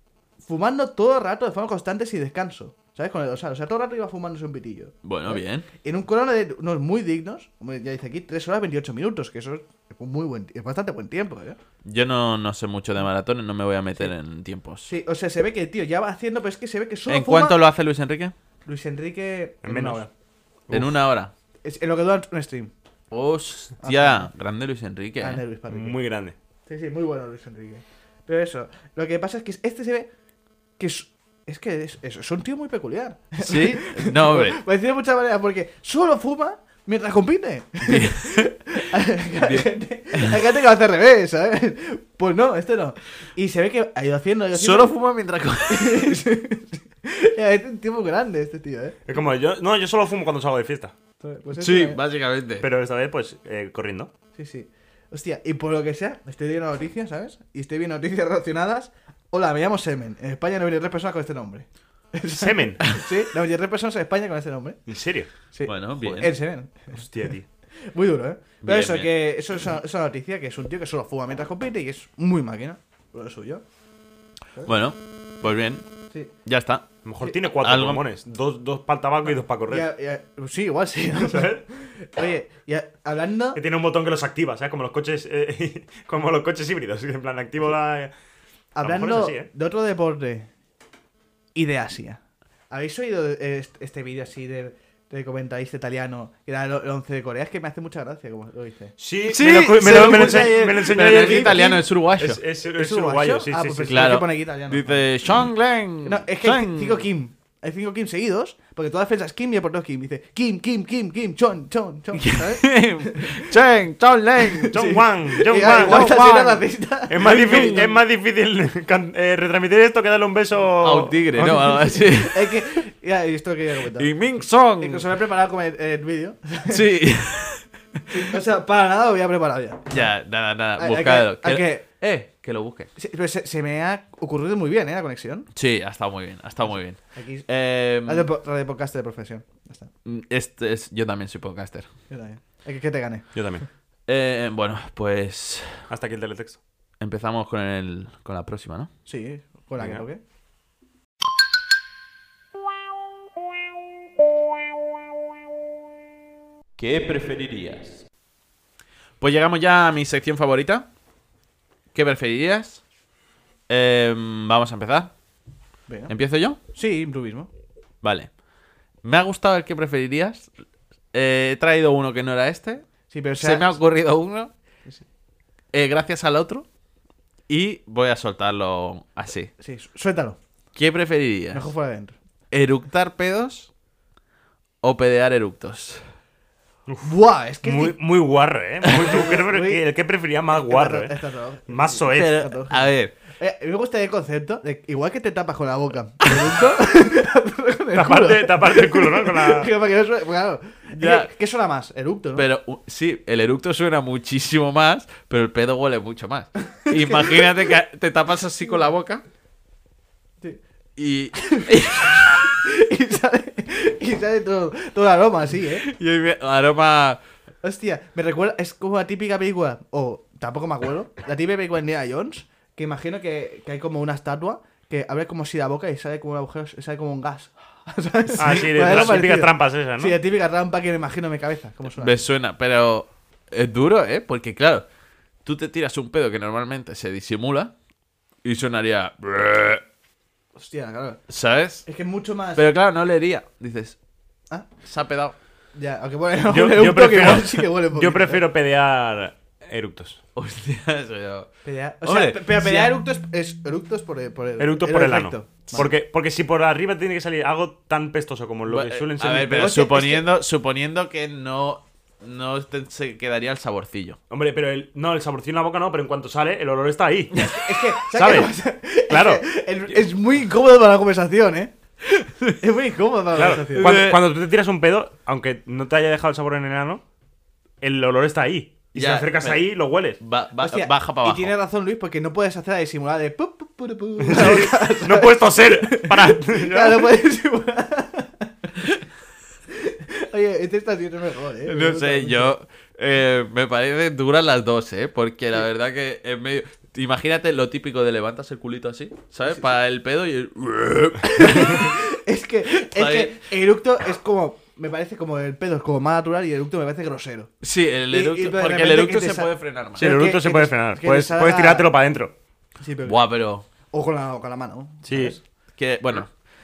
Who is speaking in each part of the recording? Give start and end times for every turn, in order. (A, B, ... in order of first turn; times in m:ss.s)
0:00.4-0:11.6 A
0:05.0-0:05.7 B
0:11.8-0:14.9 B
0:14.9-0:17.6 A
0:17.1-0:18.3 B
0:18.7-0:20.1 A
0:19.6-0:20.0 C
0:20.7-0:21.3 B
0:21.6-0:22.7 A
0:23.1-0:25.4 B
0:23.8-0:24.3 A
0:25.2-0:26.0 A
0:25.7-0:26.4 C
0:26.7-0:30.1 A
0:30.8-0:44.9 A
0:33.4-0:34.6 B
0:37.8-0:38.6 B
0:39.4-0:40.4 B
0:44.5-0:46.2 B
0:45.7-0:49.0 A
0:49.1-0:50.9 C
0:51.2-0:52.0 A
0:51.6-0:52.7 B
0:52.6-0:54.1 C
0:54.4-1:04.8 A
1:02.4-1:02.8 C
1:04.9-1:05.3 C
1:05.5-1:07.0 A
1:05.6-1:06.4 B
1:06.9-1:07.4 C
1:07.8-1:13.6 A
1:08.6-1:09.1 B
1:14.7-1:15.8 B
1:16.4-1:16.9 B
1:17.0-1:19.9 C
1:17.6-1:18.0 B
1:19.7-1:23.6 A
1:21.2-1:21.6 C
1:23.6-1:28.1 C
1:28.8-1:30.5 A
1:28.8-1:29.5 C
1:31.6-1:32.2 A
1:32.7-1:38.9 A
1:39.0-1:44.2 C
1:39.3-1:42.4 B
1:39.8-1:41.8 A
1:42.8-1:45.1 A
1:43.9-1:47.1 B
1:46.0-1:53.5 A
1:52.2-1:54.8 B
1:54.6-1:58.0 A
1:54.7-2:01.9 C
1:55.6-1:56.3 B
1:57.2-1:57.9 B
2:00.8-2:02.7 B
2:02.1-2:04.1 A
2:04.0-2:05.1 B
2:04.7-2:06.9 A
2:06.7-2:08.3 B
2:08.1-2:10.1 A
2:09.9-2:12.9 B
2:10.8-2:11.8 A
2:13.0-2:15.5 A
2:15.6-2:18.3 B
2:16.7-2:19.9 A
2:20.0-2:21.9 B
2:22.1-2:23.3 A
2:23.4-2:23.6 C
2:24.1-2:25.8 B
2:25.9-2:26.6 C
2:27.0-2:28.9 B
2:29.1-2:30.2 A
2:29.8-2:30.0 C
2:36.8-2:38.0 B
2:39.2-2:40.9 B
2:41.9-2:42.8 B
2:43.7-2:45.1 B
2:45.9-2:46.1 A
2:46.1-2:46.6 B
2:46.7-2:47.5 A
2:48.0-2:48.3 B
2:49.0-2:50.5 B
2:51.1-2:52.9 B
2:53.1-2:53.8 A
2:53.4-2:54.5 B
2:55.7-2:56.7 B
2:57.5-2:59.5 B
2:59.6-3:00.4 A
3:00.8-3:01.7 B
3:01.5-3:02.2 A
3:02.5-3:03.7 B
3:04.8-3:06.0 B
3:07.0-3:08.0 A
3:07.6-3:12.4 C
3:09.0-3:09.8 A
3:10.5-3:22.5 A
3:12.1-3:13.1 B
3:16.3-3:16.7 B
3:18.0-3:19.7 C
3:21.0-3:21.3 B
3:22.4-3:29.2 B
3:26.8-3:27.5 A
3:31.0-3:32.6 B
3:31.4-3:35.9 A
3:35.8-3:37.2 B
3:37.6-3:52.2 A
3:48.4-3:50.2 C
3:51.9-3:54.8 B
3:55.4-3:57.7 B
3:58.4-3:59.8 B
4:00.6-4:01.2 A
4:01.3-4:01.9 B
4:01.8-4:02.7 A
4:02.6-4:04.0 B
4:04.8-4:05.4 B
4:05.8-4:08.4 A
4:06.5-4:10.2 C
4:10.4-4:13.0 B
4:11.6-4:15.9 A
4:14.6-4:19.8 C
4:18.7-4:24.2 B
4:19.4-4:20.3 A
4:24.3-4:27.5 C
4:27.5-4:31.7 A
4:28.1-4:28.5 C
4:29.1-4:29.4 C
4:32.2-4:32.5 B
4:32.6-4:33.9 A
4:33.4-4:37.0 C
4:33.5-4:34.2 B
4:37.8-4:40.2 C
4:38.9-4:39.7 B
4:40.2-4:41.5 B
4:40.6-4:48.9 A
4:44.2-4:47.1 C
4:49.7-4:52.5 A
4:51.6-5:02.0 B
5:01.3-5:07.5 A
5:02.8-5:03.4 B
5:07.6-5:10.1 B
5:08.1-5:11.9 A
5:10.0-5:12.3 C
5:12.8-5:15.4 A
5:13.0-5:13.7 B
5:15.1-5:15.4 C
5:15.8-5:16.3 B